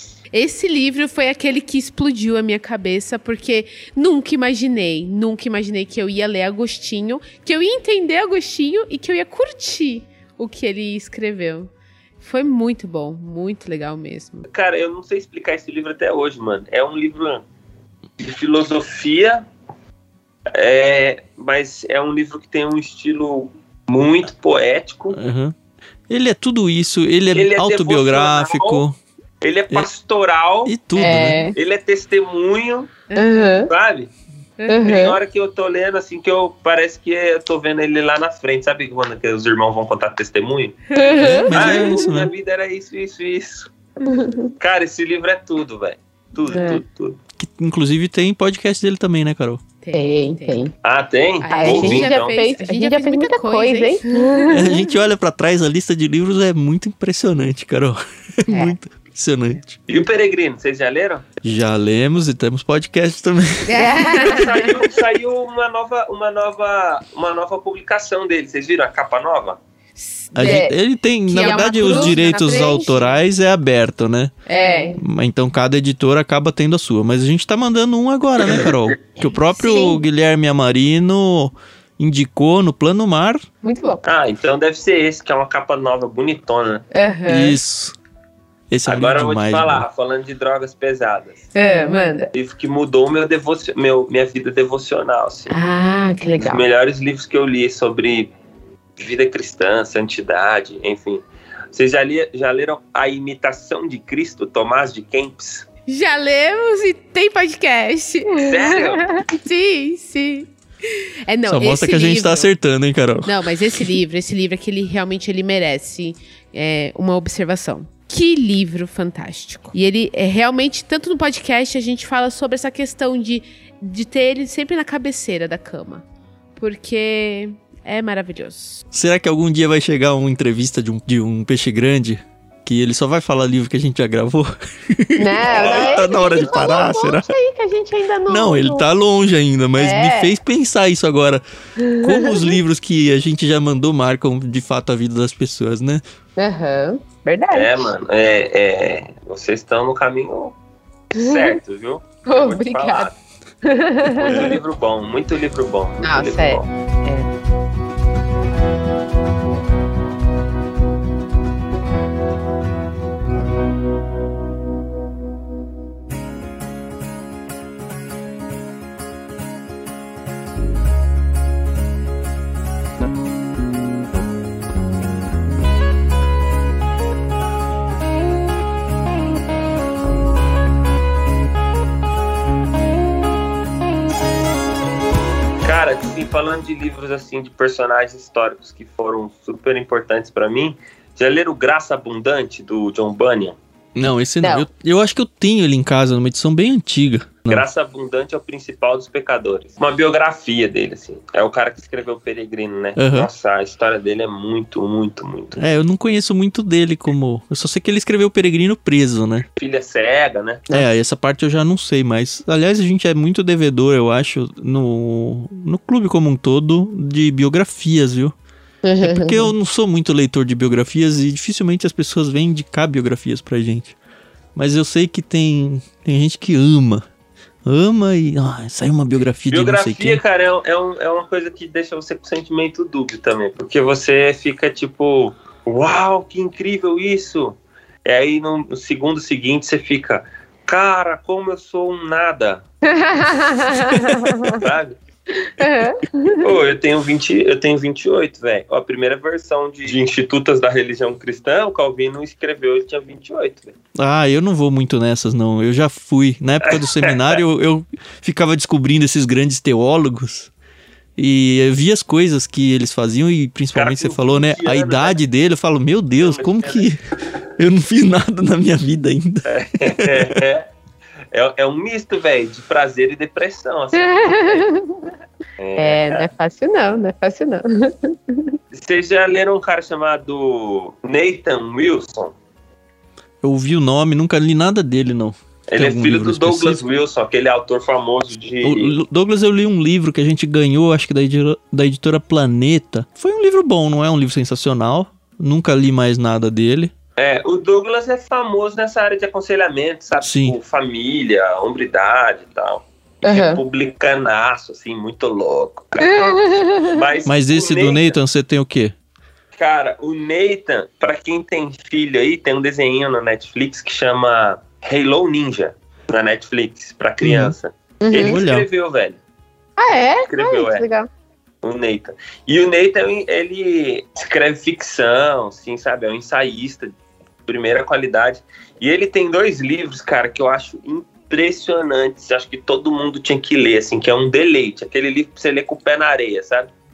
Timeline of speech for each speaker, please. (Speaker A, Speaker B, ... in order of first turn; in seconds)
Speaker A: 0.3-14.4, 34.6-34.9, 49.8-50.6, 51.4-54.5, 63.7-64.6, 70.0-70.7, 71.3-73.0, 74.5-74.8, 105.9-108.7, 109.3-112.5, 113.2-126.0, 126.5-128.8
Speaker B: 14.5-17.4, 18.2-19.5, 20.5-25.2, 27.3-28.8, 29.4-33.0, 33.7-34.1, 34.8-40.8, 41.5-43.7, 44.6-47.2, 50.8-52.4, 59.9-61.3, 64.3-69.6, 84.0-86.8, 88.8-91.5, 92.3-95.5, 96.4-98.3, 99.0-101.2, 101.7-105.7, 108.4-109.1, 135.5-136.7, 147.5-150.5, 151.1-153.2, 154.1-156.7, 185.6-193.6, 197.5-205.6, 209.6-210.7, 229.5-242.6, 244.5-245.0, 246.4-253.7, 256.7-257.1, 263.7-265.2, 266.2-266.9, 269.5-270.7, 271.3-274.7, 275.6-276.3, 278.7-282.3, 285.7-288.9, 297.2-306.3, 306.9-308.1, 309.6-319.2, 320.3-320.8, 321.6-326.9, 327.5-336.7
Speaker C: 25.1-25.5, 26.1-29.0, 30.6-31.4, 41.2-42.3, 47.4-49.6, 54.5-59.8, 61.4-64.4, 70.3-74.3, 75.0-83.4, 87.3-87.9, 88.7-89.8, 111.5-113.9, 128.9-137.3, 138.3-141.4, 142.0-146.0, 154.2-154.6, 193.9-197.7, 203.0-203.3, 205.6-209.4, 210.7-218.3, 219.0-223.9, 224.6-227.0, 227.6-230.2, 254.0-260.5, 261.2-267.0, 267.6-270.4, 283.4-286.8, 288.6-296.9, 300.2-300.6, 307.2-308.9, 317.2-317.6, 318.2-318.7
Speaker D: 30.9-31.6, 33.1-33.7, 34.7-35.2, 40.9-42.0, 44.0-44.5, 46.5-46.8, 49.9-50.7, 51.5-54.9, 58.5-58.7, 63.7-64.5, 70.4-70.7, 71.3-73.1, 74.5-75.0, 79.5-80.0, 83.6-84.0, 86.9-87.6, 91.5-92.3, 95.5-96.7, 135.2-138.8, 139.8-140.3, 141.8-142.6, 146.4-147.9, 151.2-151.6, 152.3-153.1, 153.6-154.5, 156.0-157.3, 218.8-219.5, 242.9-244.6, 245.4-246.5, 273.9-275.1, 275.8-278.6, 303.2-303.6, 306.0-307.0, 318.0-318.4, 319.8-321.1